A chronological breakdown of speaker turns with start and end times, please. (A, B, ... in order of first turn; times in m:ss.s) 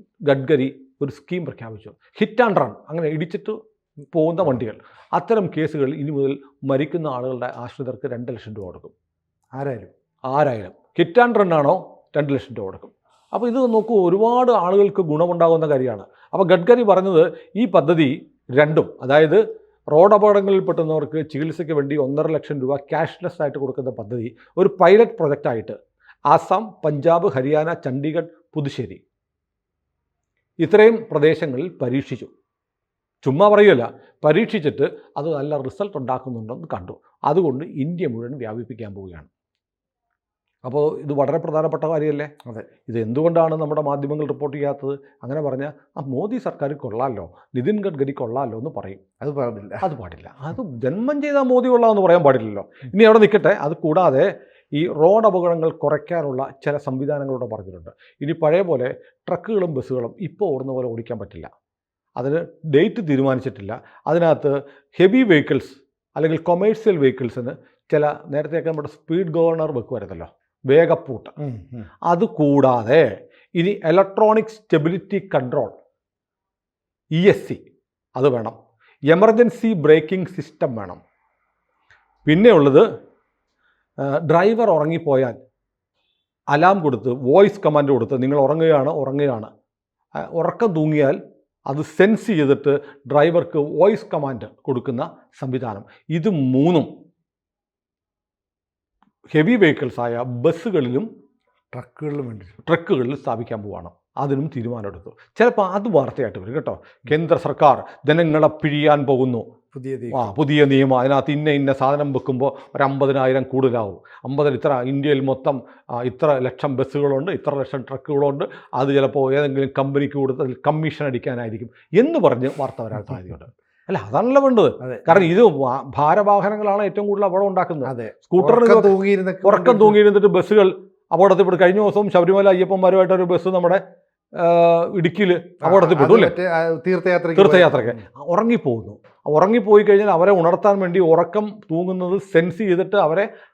0:00.2-0:03.6 A
0:04.1-0:08.9 A
0:09.5-0:09.9 B
0:10.3-0:19.4 A
0:19.9-0:25.8 A
0:26.3-0:29.0 A
0:30.6-0:32.3 A
0:33.2-0:39.3 A
0:40.6-0:42.3 A
0:42.9-0:49.0 A
0:49.2-0:49.9 B
0:49.8-1:01.5 A
1:02.2-1:11.3 A
1:11.4-1:11.8 B
1:12.0-1:15.7 A
1:17.2-1:17.6 A
1:18.2-1:18.6 A
1:19.1-1:21.0 A
1:22.2-1:22.8 A
1:24.0-1:25.4 A
1:26.5-1:29.5 A
1:30.2-1:36.9 A
1:39.3-1:41.1 A
1:41.7-1:42.6 B
1:42.6-1:49.4 A
1:49.7-1:50.3 B
1:50.1-2:13.8 A
2:04.8-2:05.3 B
2:07.8-2:10.0 B
2:14.4-2:16.3 A
2:15.6-2:17.8 B
2:17.4-2:23.3 A